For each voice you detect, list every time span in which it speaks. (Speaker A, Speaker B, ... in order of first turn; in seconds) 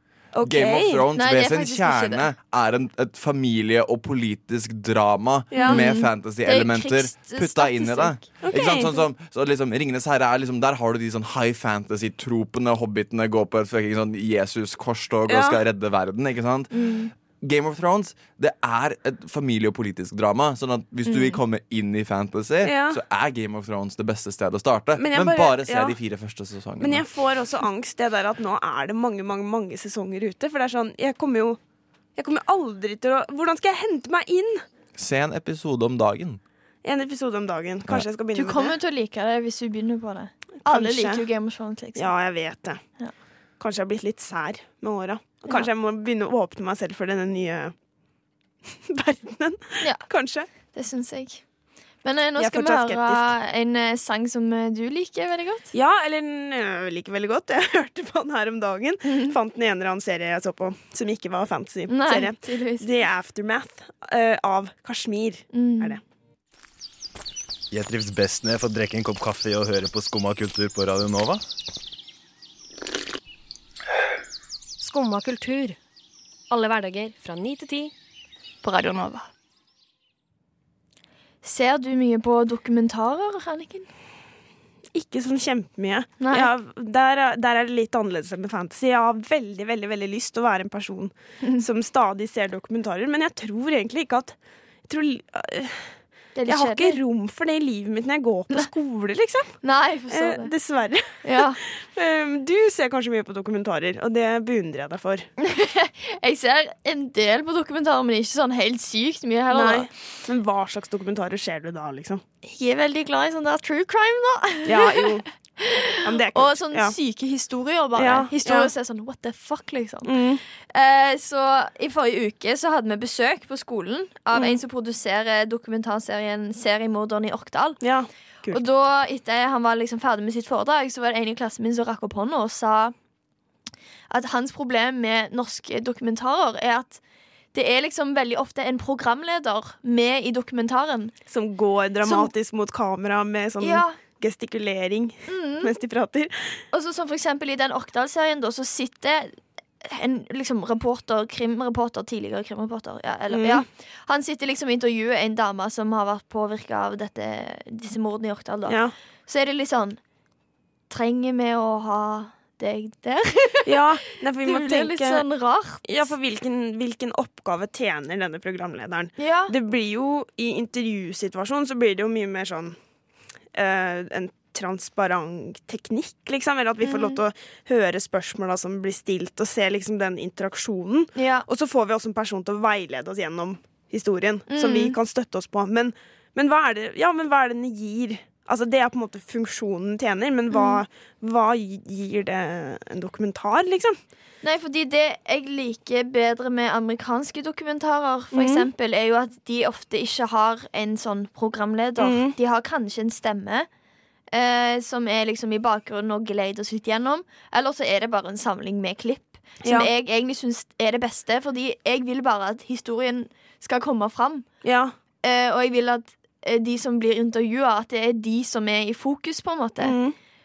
Speaker A: 0.3-1.1, 5.5-5.8, 8.4-9.0, 15.3-15.6, 22.6-23.0, 24.9-26.0, 26.8-31.6, 32.2-34.6, 36.8-38.8, 40.7-41.2, 42.0-42.8, 43.6-47.7, 48.9-50.5, 52.4-53.3, 55.7-66.0, 85.0-94.3, 94.9-96.0, 96.5-99.6, 100.1-105.3, 109.5-112.2, 114.7-115.3, 116.0-117.0, 118.0-118.7, 120.0-120.4, 127.8-128.6, 141.3-146.6, 153.3-153.6, 158.7-158.9, 163.7-165.2, 165.8-172.8, 173.5-194.0, 198.3-198.7, 202.0-202.3, 209.6-209.9, 214.6-214.9, 219.8-220.2
Speaker B: 0.4-27.1, 35.0-36.4
Speaker C: 1.1-2.3, 5.6-8.2, 16.7-17.1, 21.1-21.4, 38.3-42.1, 50.6-51.4, 52.0-55.7, 59.1-59.3, 61.9-63.0, 65.5-66.0, 78.6-79.3, 81.4-83.9, 86.2-86.5, 96.3-97.0, 99.6-100.5, 101.2-101.6, 105.4-109.9, 112.4-127.8, 128.5-132.9, 134.1-137.0, 137.5-141.1, 142.1-142.3, 143.6-144.0, 145.3-145.7, 146.7-160.0, 160.9-163.8, 164.4-166.1, 169.2-169.5, 176.8-177.2, 181.2-181.4, 184.5-185.0, 190.5-190.8, 194.4-203.7, 204.3-214.5, 215.2-219.9
Speaker D: 67.7-71.4
Speaker E: 74.8-75.8, 76.5-77.9